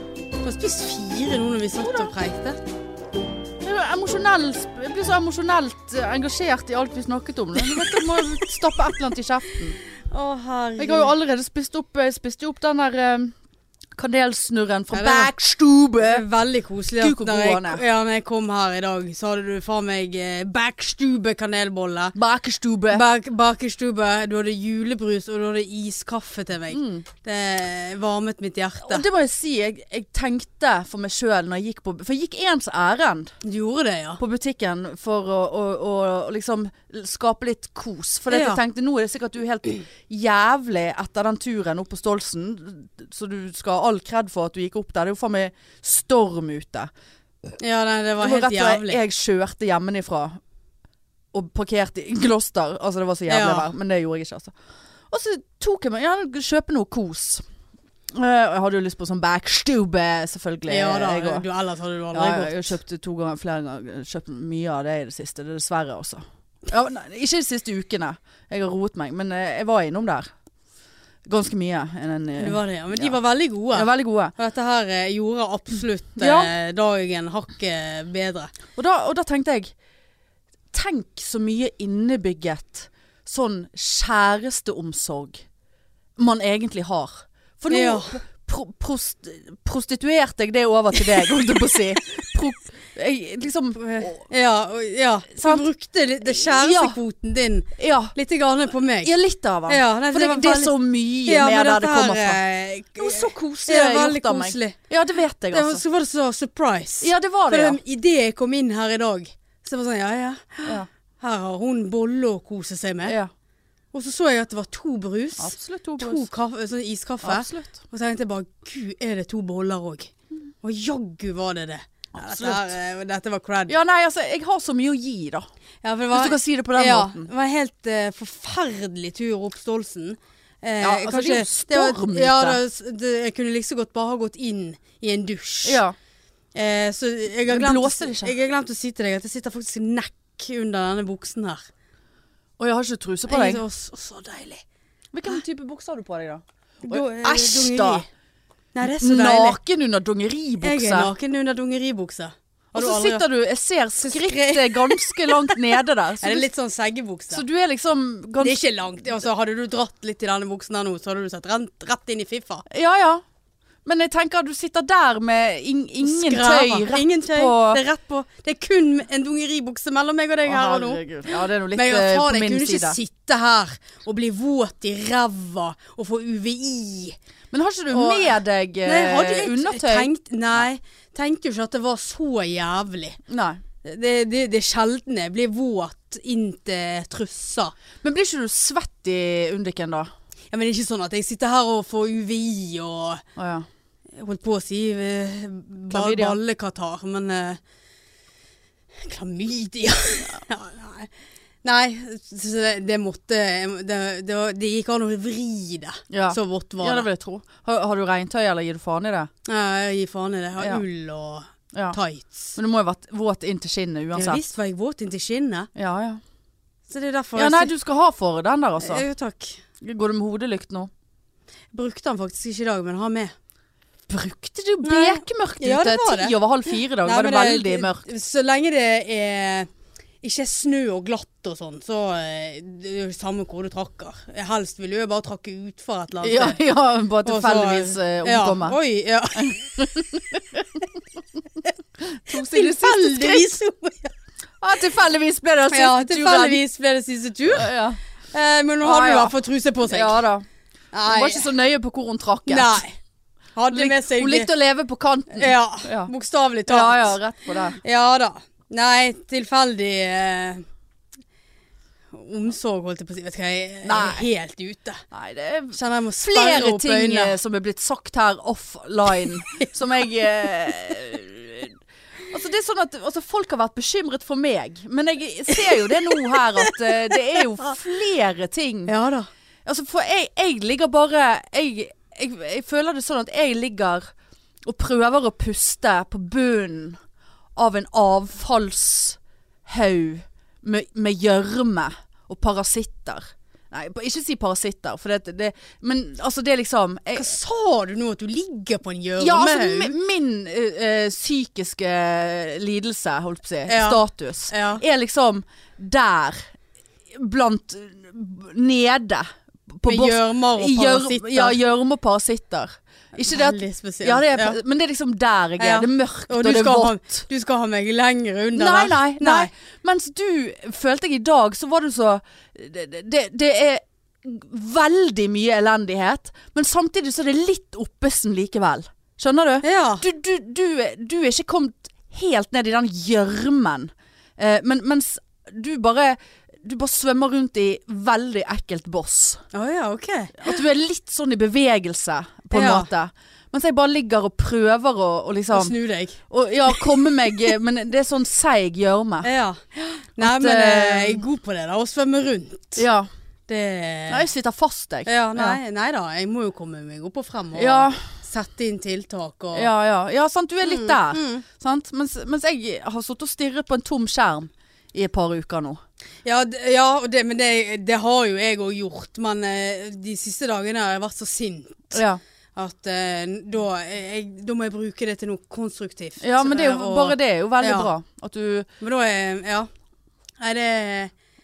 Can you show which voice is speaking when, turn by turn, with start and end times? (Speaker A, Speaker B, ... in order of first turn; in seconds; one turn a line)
Speaker A: 0.4-2.6
Speaker B: 1.8-2.1
Speaker B: 3.6-9.8
Speaker A: 7.7-8.0
Speaker A: 10.1-11.1
Speaker B: 10.8-13.3
Speaker B: 13.9-16.2
Speaker A: 14.9-15.3
Speaker A: 16.0-22.1
Speaker B: 17.0-17.8
Speaker B: 22.1-23.0
Speaker A: 22.9-29.0
Speaker B: 26.7-27.1
Speaker B: 28.8-33.3
Speaker A: 33.4-34.2
Speaker B: 34.2-46.9
Speaker A: 38.3-38.6
Speaker A: 47.6-49.0
Speaker B: 48.2-50.4
Speaker B: 51.3-54.5
Speaker A: 53.3-53.7
Speaker B: 55.1-57.4
Speaker B: 58.1-61.5
Speaker A: 60.7-62.8
Speaker B: 62.1-70.3
Speaker B: 71.2-73.2
Speaker A: 72.4-78.5
Speaker B: 73.7-74.3
Speaker B: 76.2-76.5
Speaker B: 78.8-79.7
Speaker B: 80.7-85.4
Speaker B: 86.2-94.3
Speaker A: 87.7-88.2
Speaker A: 93.8-99.1
Speaker B: 95.4-95.7
Speaker B: 96.3-97.0
Speaker B: 97.8-98.1
Speaker B: 99.0-102.4
Speaker A: 99.7-104.8
Speaker B: 103.0-105.8
Speaker A: 105.5-113.2
Speaker B: 107.0-107.8
Speaker B: 113.0-113.3
Speaker A: 113.9-123.7
Speaker B: 115.4-116.2
Speaker B: 117.2-117.8
Speaker B: 122.2-122.7
Speaker B: 123.7-125.5
Speaker A: 125.8-135.8
Speaker B: 126.1-127.3
Speaker B: 130.8-132.6
Speaker B: 135.6-135.9
Speaker A: 136.5-141.6
Speaker B: 137.5-138.3
Speaker B: 142.6-143.6
Speaker A: 143.3-144.6
Speaker B: 145.1-148.0
Speaker A: 146.8-148.1
Speaker A: 148.7-149.6
Speaker B: 148.8-151.1
Speaker A: 150.6-153.2
Speaker B: 152.7-156.4
Speaker A: 154.0-157.4
Speaker B: 157.3-158.6
Speaker A: 158.4-162.7
Speaker B: 162.7-163.2
Speaker B: 163.8-167.8
Speaker A: 166.0-171.0
Speaker B: 170.4-173.0
Speaker A: 171.7-177.2
Speaker B: 177.5-180.1
Speaker A: 177.9-183.2
Speaker B: 183.3-183.6
Speaker A: 183.8-187.7
Speaker B: 188.0-190.1
Speaker A: 190.5-193.2
Speaker B: 193.3-193.7
Speaker A: 194.2-197.6
Speaker B: 195.9-196.4
Speaker A: 199.0-201.1
Speaker A: 201.6-207.1
Speaker B: 206.1-209.3
Speaker A: 209.4-212.5
Speaker B: 210.6-210.8
Speaker B: 212.5-214.4
Speaker A: 214.1-215.7
Speaker B: 215.7-216.2
Speaker A: 216.9-217.7
Speaker B: 217.3-219.0
Speaker A: 218.8-219.6
Speaker B: 219.8-220.9
Speaker A: 221.7-223.3
Speaker B: 224.1-228.0
Speaker A: 224.8-226.3
Speaker A: 227.0-229.7
Speaker A: 230.2-236.6
Speaker B: 236.2-238.8
Speaker A: 237.2-240.0
Speaker B: 239.3-240.8
Speaker B: 242.0-243.5
Speaker A: 242.3-244.1
Speaker B: 244.6-246.6
Speaker A: 245.7-247.8
Speaker B: 247.5-248.0
Speaker A: 248.3-250.2
Speaker B: 248.8-249.3
Speaker B: 249.9-250.4
Speaker A: 250.9-251.5
Speaker B: 251.1-252.8
Speaker A: 252.5-252.9
Speaker A: 253.6-254.5
Speaker B: 253.7-256.1
Speaker A: 255.3-257.1
Speaker B: 256.7-257.8
Speaker A: 257.7-260.6
Speaker A: 262.1-265.0
Speaker B: 263.8-264.2
Speaker B: 265.1-271.8
Speaker A: 265.7-267.3
Speaker B: 272.3-278.9
Speaker A: 275.8-277.4
Speaker A: 278.9-279.3
Speaker B: 279.6-284.1
Speaker B: 284.6-287.0
Speaker B: 287.6-297.3
Speaker A: 297.2-299.9
Speaker B: 299.2-306.5
Speaker A: 303.7-304.8
Speaker B: 307.1-317.2
Speaker A: 309.8-311.6
Speaker A: 313.1-314.6
Speaker A: 315.6-319.5
Speaker B: 318.5-339.4
Speaker A: 329.6-330.0
Speaker A: 339.5-340.5
Speaker B: 340.4-345.7
Speaker A: 342.5-342.9
Speaker A: 345.5-346.2
Speaker B: 346.3-349.3
Speaker A: 346.7-347.1
Speaker A: 349.2-352.8
Speaker B: 350.2-351.2
Speaker B: 352.8-353.1
Speaker A: 353.5-354.2
Speaker B: 354.1-355.6
Speaker A: 355.1-359.7
Speaker B: 357.5-358.0
Speaker B: 359.5-365.8
Speaker A: 360.6-361.4
Speaker A: 366.2-372.0
Speaker B: 371.9-372.2
Speaker A: 372.6-377.9
Speaker B: 376.2-378.7
Speaker A: 378.8-379.7
Speaker A: 380.4-381.1